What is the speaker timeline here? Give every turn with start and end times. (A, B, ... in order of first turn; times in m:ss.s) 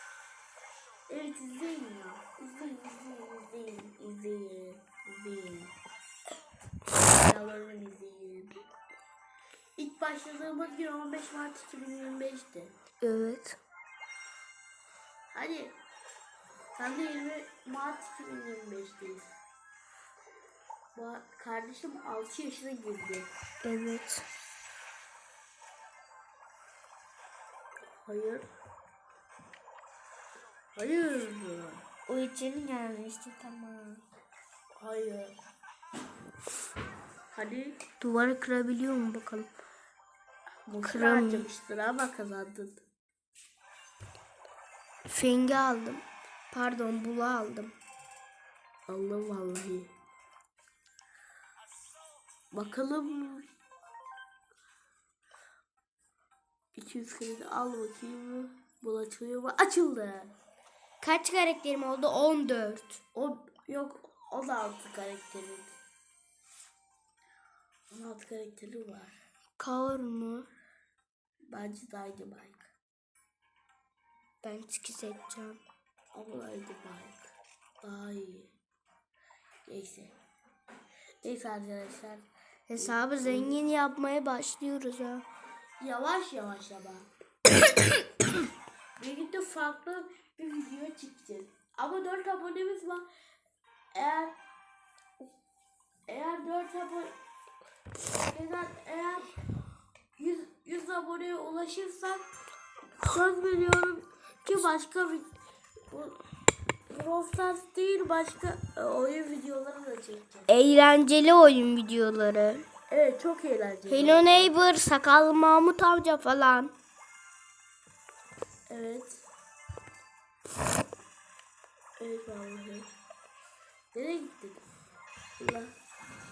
0:01.1-0:05.7 A
0:07.0-0:08.6 A
0:09.8-0:12.7 A
0:13.0-0:13.6 B
0:15.3-0:15.8 A
0:16.8-0:19.4 A
0:20.9-0:23.3 A
0:23.6-0:24.2 B
0:28.0-0:28.4 A
0:30.8-0:31.8 A
0:32.1-0:34.0 B
0:34.8-0:35.4 A
0:37.3-0:37.8 A
0:38.0-0:39.5 B
0:40.7-0:42.8 A
0:40.8-0:41.5 B
0:45.1-0:47.8 B
0:48.9-0:49.9 A
0:52.5-0:53.4 A
0:56.7-1:00.3 A
1:01.0-1:03.0 B
1:03.1-1:05.8 A
1:07.9-1:09.2 A
1:09.6-1:10.5 B
1:11.5-1:12.7 A
1:14.4-1:15.6 B
1:16.1-1:17.3 A
1:17.8-1:18.5 A
1:19.7-1:20.1 A
1:21.2-1:23.6 A
1:22.7-1:25.2 B
1:25.8-1:27.1 A
1:29.0-1:33.1 A
1:33.9-1:34.4 A
1:36.1-1:37.1 A
1:38.2-1:39.3 A
1:40.2-1:42.2 A
1:43.0-1:45.3 A
1:45.9-1:46.2 A
1:46.9-1:50.6 A
1:50.5-1:52.6 B
1:52.9-1:54.5 A
1:53.9-1:56.7 B
1:58.7-1:59.2 A
2:02.0-2:02.9 A
2:03.9-2:04.6 A
2:05.4-2:05.7 A